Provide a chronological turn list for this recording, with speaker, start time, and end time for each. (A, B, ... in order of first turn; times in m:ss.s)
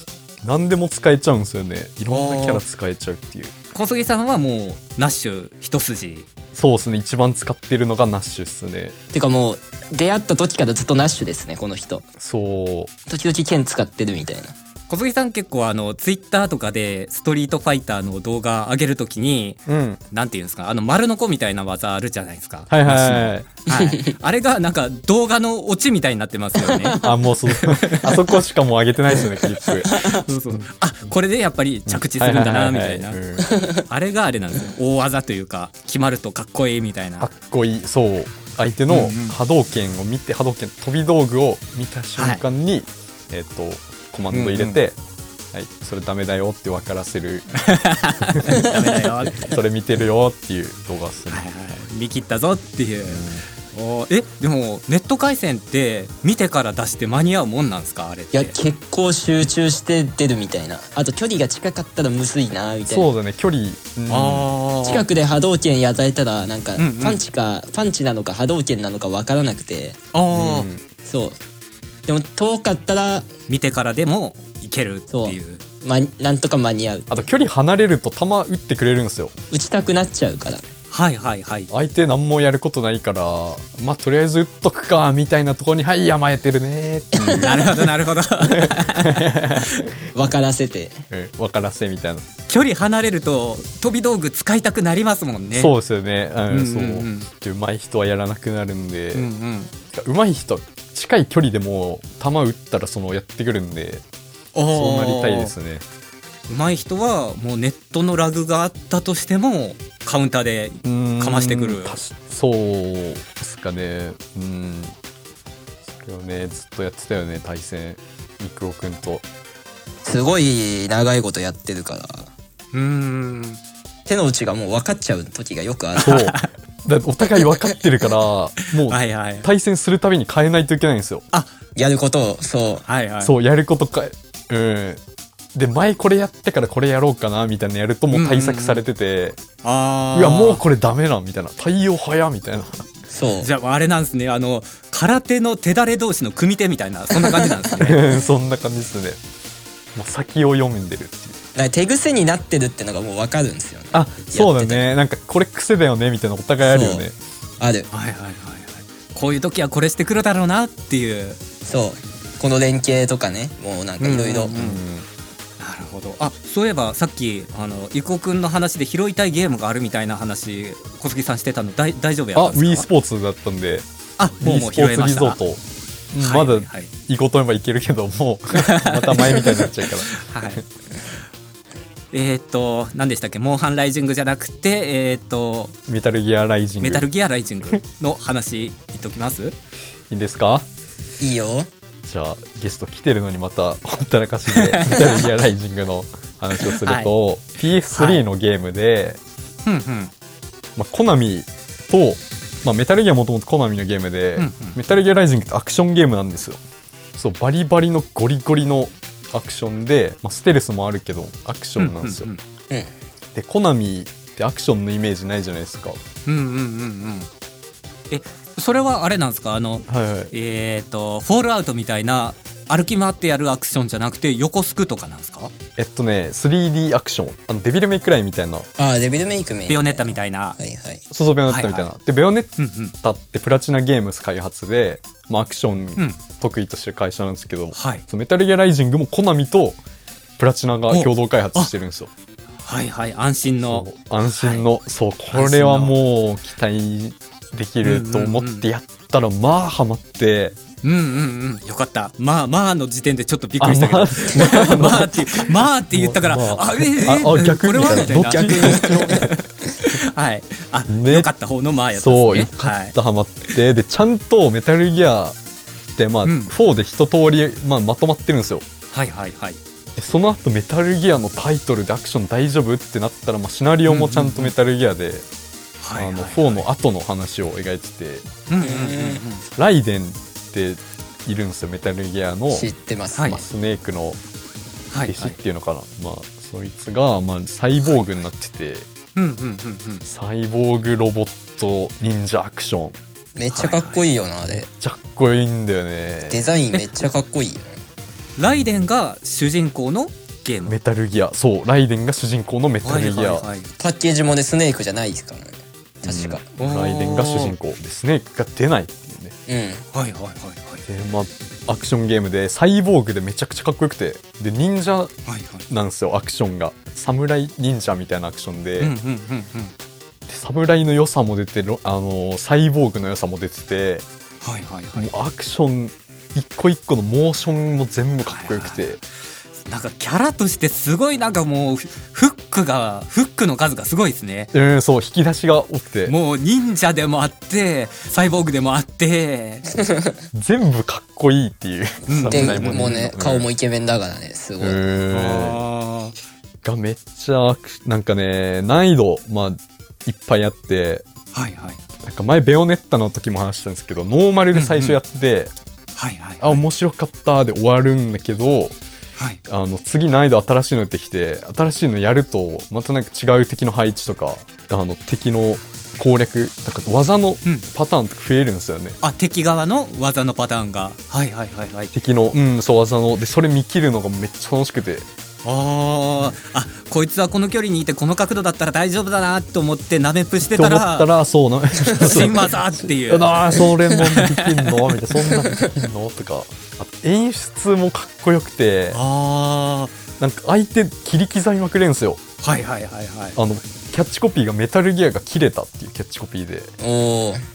0:00.4-0:03.5 A
0:02.1-0:02.6 B
0:03.7-0:06.3 B
0:06.5-0:09.0 A
0:09.1-0:12.1 C
0:12.2-0:12.9 A
0:13.1-0:14.5 C
0:14.9-0:27.0 B
0:19.7-0:20.0 A
0:22.7-0:23.5 A
0:23.7-0:24.1 C
0:26.6-0:27.2 C
0:27.0-0:30.6 A
0:27.5-0:28.1 B
0:29.8-0:30.2 C
0:30.0-0:33.2 B
0:31.9-0:33.5 A
0:33.4-0:33.8 C
0:33.9-0:37.3 B
0:37.2-0:45.0 A
0:38.9-0:39.4 B
0:42.2-0:42.4 B
0:44.3-0:44.8 B
0:45.5-0:47.5 A
0:47.6-0:49.5 B
0:48.4-0:51.4 A
0:51.3-0:58.5 B
0:53.0-0:53.4 A
0:58.3-1:03.1 C
1:02.9-1:04.5 A
1:04.1-1:05.1 B
1:04.8-1:10.0 C
1:06.8-1:07.2 B
1:10.1-1:10.7 B
1:10.3-1:10.8 A
1:11.0-1:11.4 C
1:12.1-1:13.3 C
1:13.5-1:15.6 B
1:15.1-1:17.1 C
1:17.1-1:19.3 A
1:19.5-1:20.6 C
1:20.9-1:21.7 B
1:21.7-1:27.7 A
1:27.2-1:27.6 C
1:27.3-1:29.9 B
1:28.4-1:29.9 A
1:30.1-1:31.0 C
1:31.1-1:32.2 A
1:32.5-1:35.7 B
1:35.5-1:39.3 A
1:36.5-1:37.3 B
1:39.2-1:39.7 B
1:39.9-1:44.0 A
1:44.5-1:45.5 B
1:44.7-1:45.8 A
1:46.5-1:52.0 B
1:50.8-1:55.0 A
1:56.0-1:59.2 A
2:00.0-2:02.3 C
2:02.7-2:03.6 B
2:04.1-2:06.2 C
2:06.0-2:06.5 B
2:06.0-2:11.2 A
2:07.4-2:07.6 C
2:08.9-2:09.5 B
2:11.8-2:12.8 C
2:12.9-2:13.3 B
2:13.2-2:15.0 A
2:15.5-2:19.4 A
2:18.1-2:18.8 B
2:19.6-2:20.6 B
2:20.1-2:22.9 A
2:23.1-2:23.5 C
2:23.4-2:28.0 B
2:27.2-2:27.6 C
2:27.8-2:29.2 A
2:29.9-2:31.4 A
2:31.6-2:34.8 C
2:33.9-2:37.2 A
2:36.7-2:37.0 C
2:37.6-2:37.9 C
2:37.9-2:41.4 B
2:41.6-2:44.5 C
2:44.0-2:44.8 B
2:44.5-2:45.1 A
2:45.6-2:52.9 B
2:52.4-2:53.9 A
2:54.2-2:55.4 B
2:54.4-2:55.6 A
2:56.1-3:00.6 A
2:56.2-2:56.9 B
2:58.6-2:59.4 B
3:00.1-3:00.6 B
3:02.1-3:05.8 B
3:05.9-3:07.0 A
3:06.8-3:09.6 B
3:10.1-3:10.7 A
3:11.2-3:11.7 C
3:12.0-3:19.2 A
3:14.5-3:15.1 B
3:16.8-3:17.1 B
3:17.9-3:18.2 B
3:19.7-3:20.1 B
3:20.8-3:26.6 A
3:24.4-3:24.8 B
3:27.2-3:32.3 A
3:31.8-3:32.4 B
3:33.3-3:36.0 A
3:36.3-3:37.3 B
3:38.1-3:45.5 B
3:39.9-3:40.3 A
3:45.8-3:48.7 A
3:48.8-3:51.0 C
3:49.7-3:50.6 B
3:51.1-3:59.8 A
3:51.5-3:51.9 B
3:52.6-3:52.9 B
3:57.8-3:58.0 B
4:00.4-4:02.1 A
4:00.9-4:01.7 B
4:02.6-4:04.7 B
4:03.7-4:10.6 A
4:05.3-4:06.0 B
4:07.8-4:08.7 B
4:10.8-4:23.0 B
4:13.6-4:19.3 A
4:17.9-4:19.4 C
4:20.9-4:21.3 A
4:22.0-4:25.4 A
4:26.0-4:28.7 A
4:26.2-4:26.5 B
4:28.9-4:29.6 B
4:30.0-4:35.2 A
4:33.9-4:34.5 B
4:35.8-4:36.6 B
4:36.0-4:38.3 A
4:38.5-4:39.4 B
4:38.6-4:39.2 C
4:39.6-4:42.7 A
4:42.5-4:43.4 C
4:43.2-4:43.4 B
4:43.3-4:44.2 A
4:44.9-4:45.4 B
4:45.1-4:48.9 A
4:49.2-4:50.0 B
4:50.0-4:53.0 A
4:53.4-4:54.7 C
4:53.5-4:54.0 B
4:54.5-4:56.5 A
4:56.3-4:57.8 C
4:58.4-5:00.8 B
5:00.7-5:03.5 A
5:02.8-5:03.7 B
5:03.8-5:06.4 C
5:06.1-5:09.4 A
5:06.5-5:07.6 B
5:09.5-5:09.8 C
5:09.9-5:10.8 B
5:10.9-5:15.1 A
5:15.3-5:15.6 B
5:15.7-5:18.9 A
5:18.8-5:19.7 B
5:20.3-5:24.0 A
5:24.4-5:25.1 B
5:25.0-5:29.0 A
5:28.3-5:28.8 B
5:29.7-5:34.5 B
5:34.5-5:36.2 A
5:36.1-5:39.7 B
5:40.3-5:43.5 A
5:42.1-5:43.0 B
5:42.3-5:44.8 C
5:44.6-5:45.6 A
5:45.1-5:46.2 B
5:46.6-5:51.1 A
5:51.3-5:51.8 B
5:52.0-5:55.5 A
5:54.5-5:55.0 B
5:56.0-5:56.6 B
5:56.4-5:58.8 A
5:59.5-6:09.0 A
6:09.0-6:11.9 B
6:11.9-6:15.1 A
6:15.4-6:21.1 B
6:20.5-6:29.0 A
6:21.9-6:24.7 B
6:28.9-6:30.0 B
6:30.2-6:32.2 A
6:32.4-6:33.4 B
6:33.4-6:36.7 A
6:36.8-6:37.4 C